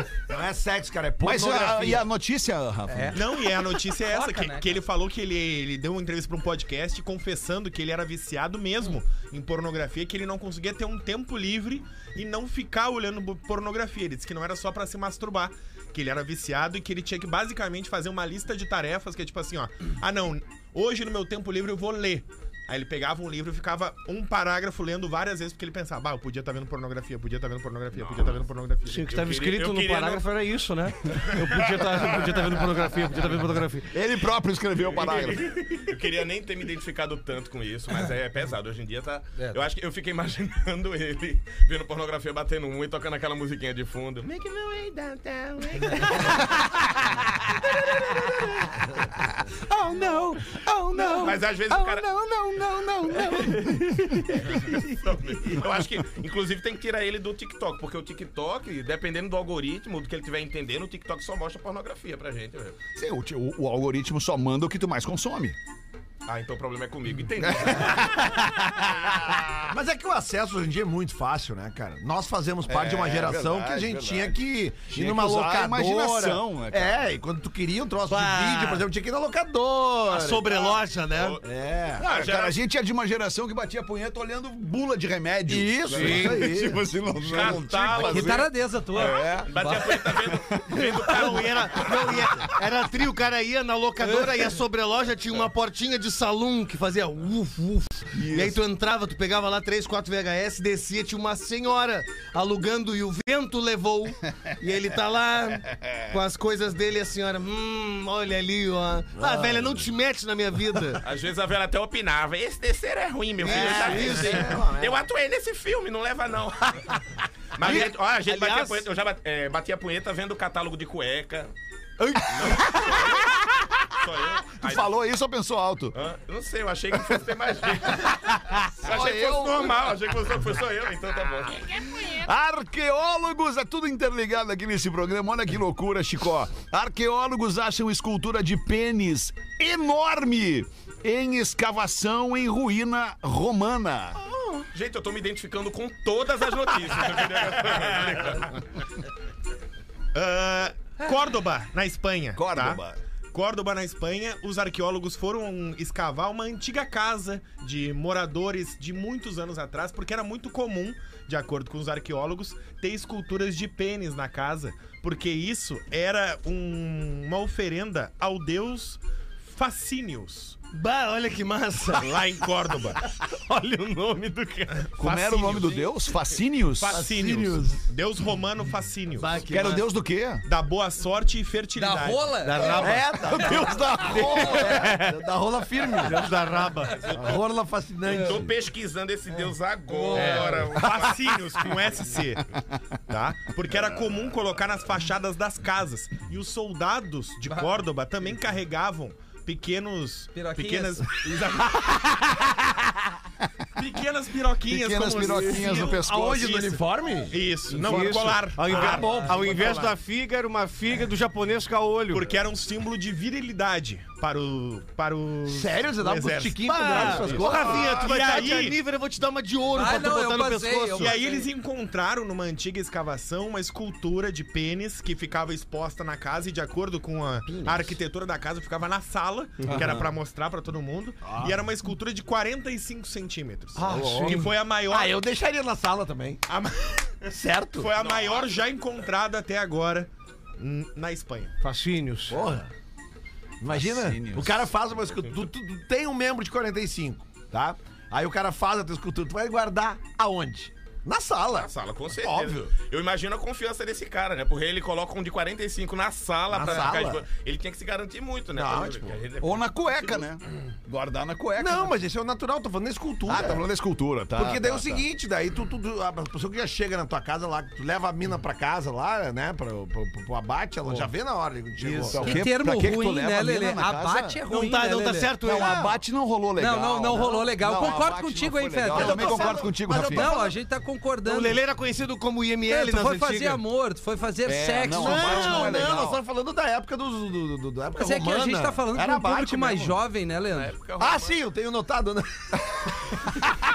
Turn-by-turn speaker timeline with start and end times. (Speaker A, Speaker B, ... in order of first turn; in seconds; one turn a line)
Speaker A: 0.3-2.0
Speaker B: 1.2-3.5
Speaker C: 3.1-29.1
Speaker D: 4.0-4.8
Speaker E: 27.9-28.4
Speaker F: 28.9-33.9
Speaker E: 29.0-30.2
Speaker B: 33.9-35.5
Speaker E: 34.8-46.4
Speaker B: 47.6-48.6
Speaker B: 49.4-54.8
Speaker E: 51.0-52.1
Speaker E: 54.3-62.8
Speaker B: 63.0-65.6
Speaker E: 66.3-68.3
Speaker B: 67.4-68.4
Speaker A: 67.8-80.8
Speaker B: 69.0-69.6
Speaker B: 72.7-77.1
Speaker F: 78.1-78.9
Speaker F: 80.1-81.4
Speaker E: 81.1-81.4
Speaker A: 81.4-82.1
Speaker B: 82.0-89.5
Speaker E: 82.0-82.6
Speaker A: 85.5-87.9
Speaker F: 85.9-86.5
Speaker E: 87.3-92.3
Speaker D: 88.0-90.1
Speaker F: 91.0-111.0
Speaker B: 98.2-98.6
Speaker A: 109.2-109.7
Speaker E: 111.0-117.0
Speaker F: 113.4-114.8
Speaker A: 113.4-115.0
Speaker E: 117.5-121.5
Speaker F: 117.6-118.8
Speaker F: 122.0-122.8
Speaker E: 122.3-123.3
Speaker B: 122.5-123.8
Speaker E: 123.9-124.9
Speaker B: 124.6-126.0
Speaker E: 125.9-132.1
Speaker B: 128.7-130.0
Speaker B: 131.9-144.2
Speaker E: 144.7-148.6
Speaker C: 150.1-152.8
Speaker B: 152.4-153.0
Speaker C: 153.3-170.6
Speaker F: 170.7-174.7
Speaker C: 172.0-173.0
Speaker C: 174.7-176.0
Speaker B: 175.0-177.1
Speaker C: 176.8-179.8
Speaker A: 176.9-177.8
Speaker F: 179.2-179.9
Speaker B: 179.5-180.4
Speaker C: 180.4-182.8
Speaker D: 181.8-182.9
Speaker F: 182.4-183.4
Speaker A: 182.8-186.3
Speaker B: 183.3-184.9
Speaker F: 184.6-185.2
Speaker F: 186.0-187.1
Speaker E: 186.9-187.4
Speaker A: 187.1-188.5
Speaker E: 188.0-191.4
Speaker D: 189.9-190.7
Speaker C: 190.1-192.4
Speaker C: 193.1-201.9
Speaker D: 200.3-201.1
Speaker C: 203.8-210.0
Speaker B: 204.7-206.6
Speaker F: 205.5-205.9
Speaker A: 205.6-207.4
Speaker F: 207.7-212.3
Speaker C: 212.1-218.8
Speaker A: 215.5-218.0
Speaker F: 216.6-221.4
Speaker B: 217.4-217.9
Speaker D: 219.8-221.2
Speaker C: 221.0-235.2
Speaker A: 231.2-231.6
Speaker F: 233.8-234.5
Speaker A: 233.8-236.4
Speaker C: 236.5-241.6
Speaker A: 237.3-237.9
Speaker E: 238.0-238.5
Speaker F: 241.6-242.4
Speaker A: 242.3-242.7
Speaker A: 243.6-252.7
Speaker B: 243.7-244.7
Speaker E: 245.1-245.5
Speaker E: 251.5-259.8
Speaker A: 256.5-257.2
Speaker A: 258.6-259.2
Speaker B: 259.4-261.9
Speaker A: 261.6-263.6
Speaker B: 263.3-265.1
Speaker A: 264.4-272.4
Speaker B: 271.8-274.4
Speaker D: 272.2-275.3
Speaker F: 274.5-275.9
Speaker B: 275.4-280.3
Speaker A: 275.5-275.9
Speaker D: 276.6-281.6
Speaker A: 278.9-280.5
Speaker F: 281.2-283.6
Speaker D: 282.7-285.8
Speaker B: 284.5-286.2
Speaker A: 284.9-290.0
Speaker F: 285.0-285.9
Speaker D: 287.9-290.7
Speaker E: 290.5-291.4
Speaker A: 291.0-293.5